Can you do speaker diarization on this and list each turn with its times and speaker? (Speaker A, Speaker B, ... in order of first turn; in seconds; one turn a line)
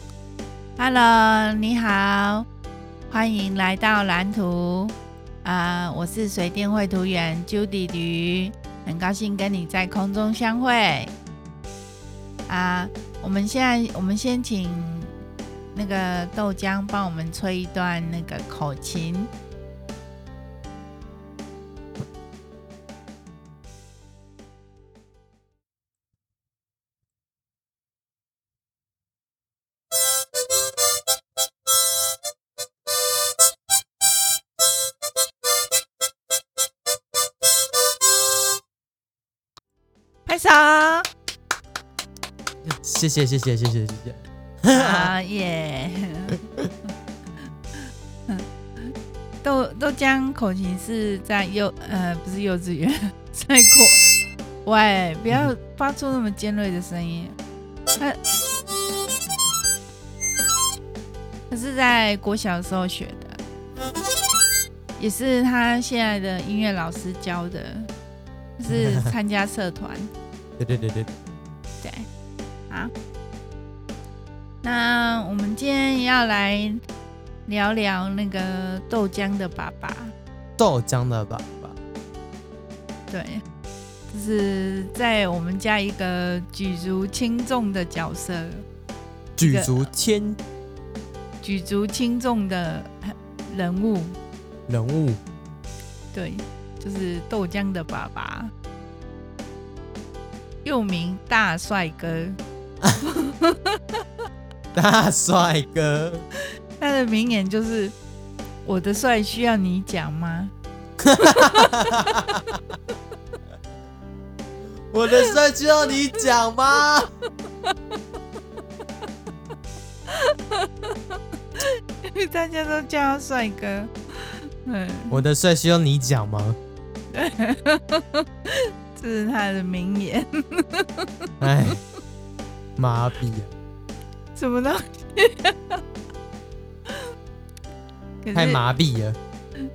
Speaker A: 0.8-2.5
Speaker A: 3.1-11.1
Speaker A: 12.5-15.1
Speaker A: 15.7-19.3
Speaker A: 40.2-41.1
Speaker B: 42.8-45.1
Speaker A: 44.7-46.4
Speaker A: 48.3-54.1
Speaker A: 54.6-57.4
Speaker A: 61.5-63.4
Speaker A: 65.0-67.9
Speaker A: 68.6-70.1
Speaker B: 68.7-69.1
Speaker B: 70.6-71.3
Speaker A: 71.8-72.1
Speaker A: 74.6-76.8
Speaker A: 77.5-80.1
Speaker B: 80.6-81.8
Speaker A: 83.1-83.4
Speaker A: 84.1-88.6
Speaker B: 89.4-90.4
Speaker A: 89.4-89.9
Speaker A: 91.4-94.2
Speaker B: 94.7-95.2
Speaker A: 96.1-98.5
Speaker A: 100.6-102.4
Speaker A: 103.0-103.8
Speaker B: 104.7-106.2
Speaker A: 106.8-107.9
Speaker A: 108.6-110.5
Speaker B: 111.0-112.4
Speaker A: 111.2-112.2
Speaker B: 114.9-117.1
Speaker A: 120.1-121.0
Speaker A: 121.6-125.2
Speaker B: 125.1-126.6
Speaker A: 127.1-131.1
Speaker B: 131.4-131.8
Speaker B: 132.8-133.5
Speaker A: 134.3-135.8
Speaker A: 138.2-138.6
Speaker B: 138.3-139.2